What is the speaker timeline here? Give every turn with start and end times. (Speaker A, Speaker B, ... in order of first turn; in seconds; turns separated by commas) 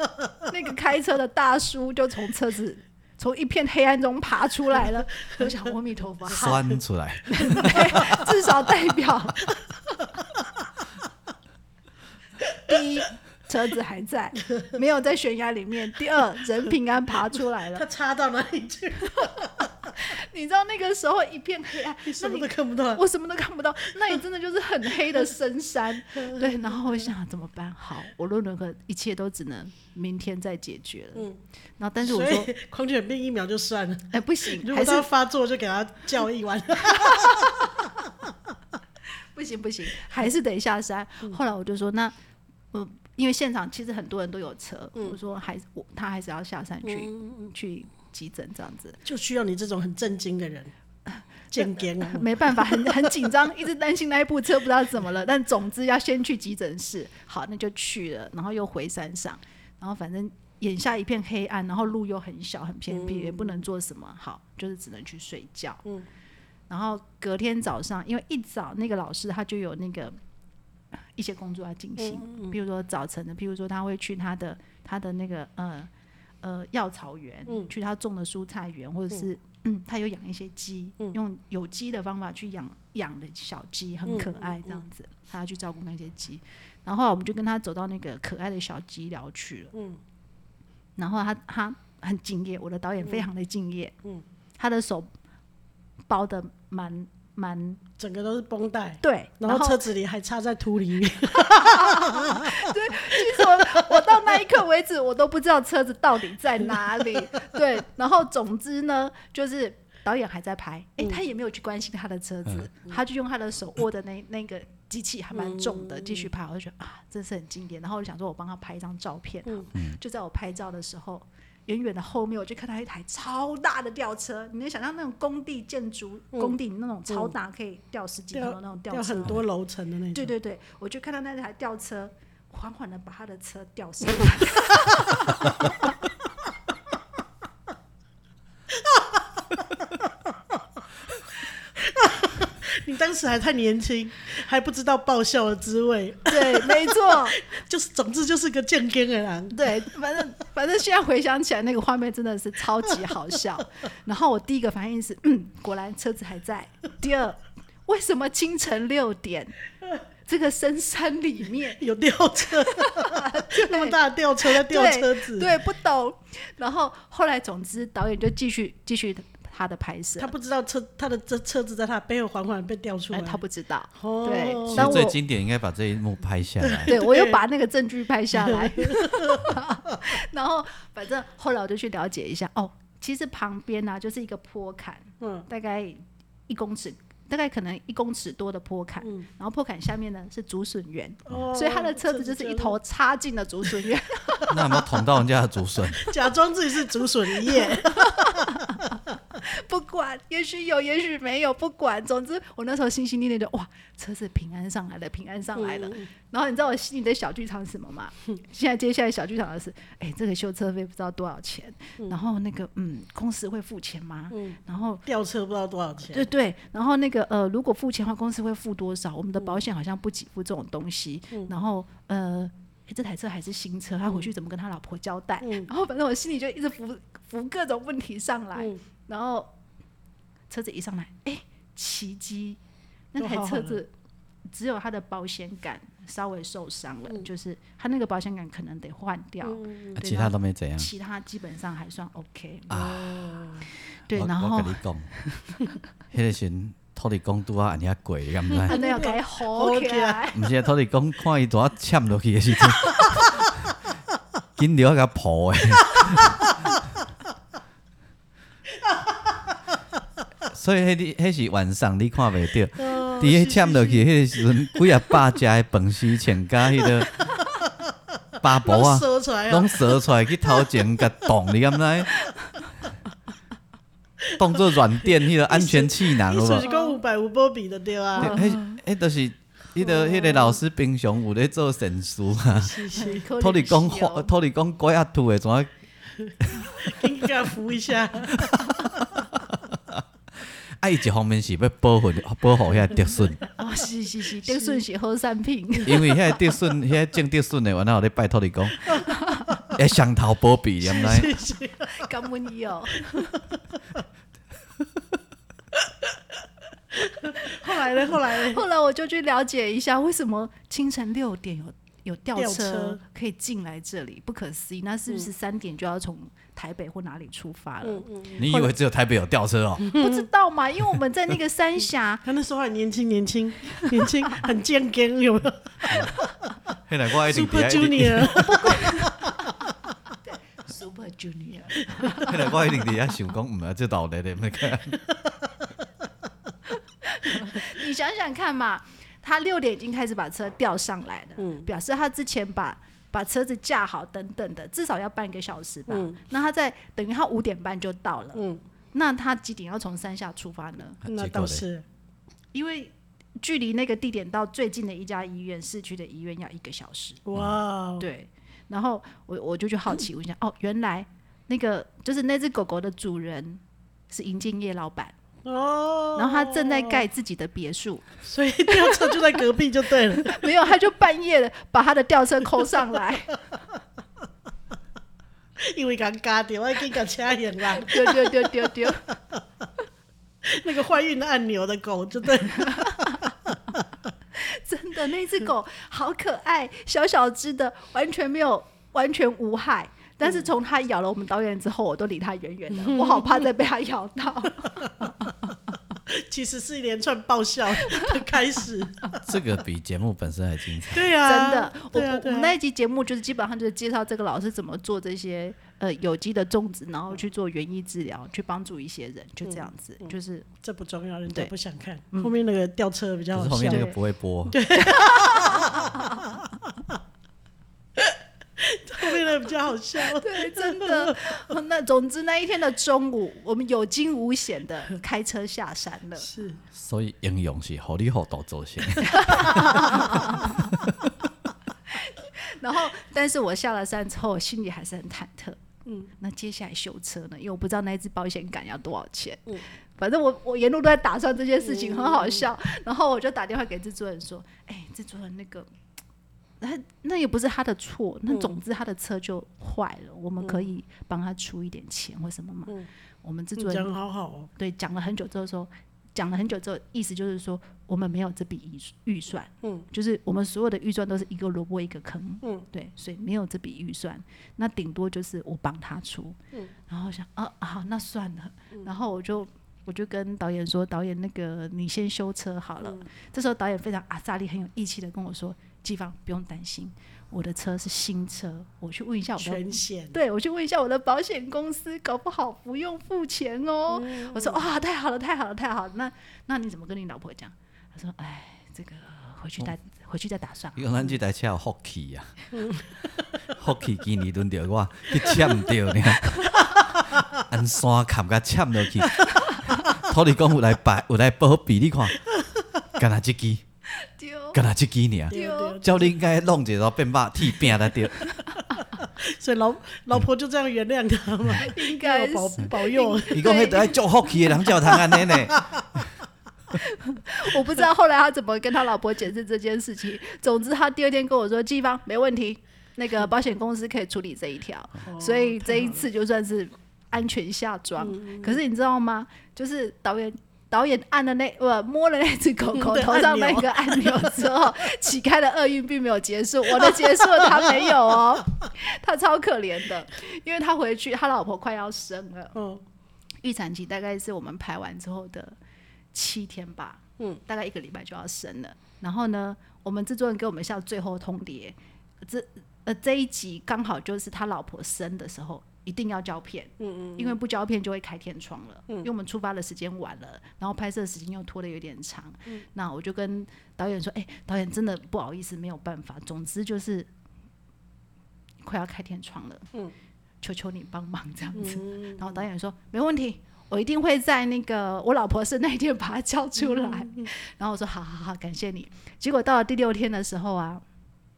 Speaker A: 0.5-6.6, Speaker B: 6.3-8.2, Speaker A: 7.3-9.6, Speaker A: 12.7-17.9, Speaker C: 17.8-19.7, Speaker A: 20.0-32.5, Speaker C: 22.1-23.0, Speaker C: 26.2-26.8, Speaker C: 32.0-37.7, Speaker A: 34.1-35.1, Speaker A: 36.9-37.7, Speaker A: 39.3-42.1, Speaker A: 42.7-49.0, Speaker C: 46.9-47.2, Speaker C: 49.0-50.7, Speaker A: 51.1-65.8, Speaker C: 51.5-53.1, Speaker C: 62.9-63.6, Speaker A: 66.7-70.2, Speaker A: 71.2-75.9, Speaker C: 72.0-72.5, Speaker A: 76.4-89.7, Speaker C: 84.1-84.8, Speaker C: 89.7-90.0, Speaker A: 91.0-94.0, Speaker A: 94.6-95.1, Speaker A: 96.1-97.8, Speaker C: 98.0-104.1, Speaker A: 99.0-99.8, Speaker A: 101.3-129.4, Speaker C: 115.4-116.3, Speaker C: 128.3-130.3, Speaker A: 130.1-135.9, Speaker C: 138.7-139.4, Speaker C: 141.8-149.8, Speaker A: 146.3-147.4, Speaker A: 149.5-159.6, Speaker A: 160.3-161.8, Speaker C: 161.8-165.5, Speaker A: 162.6-170.3, Speaker C: 170.2-173.4, Speaker A: 173.1-175.2, Speaker C: 174.0-175.1, Speaker B: 174.7-177.0, Speaker C: 176.7-177.4, Speaker A: 176.9-194.5, Speaker C: 178.3-179.5, Speaker C: 185.2-185.5, Speaker C: 191.3-192.8, Speaker B: 194.5-196.1, Speaker C: 196.0-198.6, Speaker A: 197.6-215.1, Speaker C: 205.6-206.1, Speaker C: 214.3-216.3, Speaker A: 216.1-229.5, Speaker C: 225.4-225.7, Speaker A: 230.5-232.6, Speaker A: 233.1-233.9, Speaker C: 233.2-233.8, Speaker A: 234.5-243.4, Speaker C: 239.4-240.0, Speaker B: 240.0-240.9, Speaker B: 242.7-243.3, Speaker C: 242.8-243.7, Speaker A: 244.1-245.6, Speaker B: 244.1-245.1, Speaker B: 246.1-248.8, Speaker C: 248.7-250.3, Speaker A: 248.7-250.4, Speaker B: 250.3-253.7, Speaker B: 254.6-256.5, Speaker C: 258.9-259.1, Speaker B: 260.5-267.1, Speaker C: 262.8-264.1, Speaker B: 268.4-272.3, Speaker C: 268.6-270.0, Speaker B: 274.4-276.7, Speaker C: 275.5-278.4, Speaker A: 276.6-277.0, Speaker B: 278.2-285.7, Speaker A: 278.2-278.8, Speaker C: 282.5-283.3, Speaker A: 283.0-284.3, Speaker B: 286.4-286.7, Speaker C: 286.8-288.8, Speaker B: 289.5-293.4, Speaker A: 293.6-296.3, Speaker B: 295.8-298.9, Speaker A: 299.1-299.5, Speaker B: 299.7-301.4, Speaker C: 300.8-302.1, Speaker A: 301.9-303.4, Speaker C: 306.9-308.6, Speaker A: 307.8-318.1, Speaker C: 312.4-313.0, Speaker C: 317.8-318.7, Speaker B: 318.4-319.9, Speaker C: 319.9-320.3, Speaker A: 319.9-322.3, Speaker C: 322.2-326.0, Speaker B: 325.9-326.1, Speaker B: 326.9-328.8, Speaker C: 327.2-329.3, Speaker A: 328.7-329.1, Speaker A: 330.3-332.6, Speaker B: 332.2-335.0, Speaker A: 337.1-351.0, Speaker C: 341.4-341.7, Speaker C: 345.9-346.2, Speaker C: 348.4-348.6, Speaker B: 351.0-351.7, Speaker C: 351.1-351.8, Speaker A: 352.5-357.2, Speaker C: 357.3-358.1, Speaker B: 357.3-357.6, Speaker A: 358.0-365.1, Speaker C: 365.4-367.0, Speaker A: 366.2-368.2, Speaker C: 368.2-370.6, Speaker A: 368.7-369.4, Speaker A: 370.1-373.4, Speaker C: 375.6-379.2, Speaker A: 377.8-379.1, Speaker C: 380.4-383.1, Speaker A: 382.6-383.2, Speaker A: 384.4-395.1, Speaker C: 392.8-393.4, Speaker C: 396.1-399.1, Speaker B: 399.2-401.1, Speaker C: 400.9-402.6, Speaker A: 401.2-410.5, Speaker C: 409.4-410.1, Speaker C: 410.6-413.9, Speaker B: 413.3-414.6, Speaker A: 413.6-414.0, Speaker C: 414.5-416.4, Speaker A: 414.8-416.3, Speaker C: 418.0-421.2, Speaker A: 420.1-426.3, Speaker C: 426.2-426.6, Speaker B: 426.7-431.1, Speaker A: 429.1-430.7, Speaker A: 431.9-435.6, Speaker A: 436.2-445.7, Speaker C: 441.7-442.4, Speaker A: 446.6-453.9, Speaker C: 453.6-454.5, Speaker A: 454.6-466.4, Speaker A: 466.9-490.9, Speaker C: 479.4-480.2, Speaker C: 483.9-484.6, Speaker B: 490.8-492.5, Speaker B: 493.4-499.3, Speaker B: 499.8-502.2, Speaker B: 503.0-503.6, Speaker A: 504.0-504.6, Speaker B: 504.5-508.3, Speaker A: 505.3-505.8, Speaker C: 505.3-506.1, Speaker C: 509.2-513.8, Speaker A: 511.6-514.7, Speaker B: 513.3-515.7, Speaker C: 514.7-515.9, Speaker A: 516.8-542.6, Speaker C: 525.1-526.1, Speaker C: 528.0-528.6, Speaker C: 532.7-534.6, Speaker C: 536.9-537.5, Speaker C: 542.6-542.8, Speaker A: 543.4-545.5, Speaker A: 546.1-567.1, Speaker C: 556.8-557.4, Speaker A: 568.6-569.7, Speaker A: 570.4-580.8, Speaker C: 571.6-572.3, Speaker C: 576.7-577.3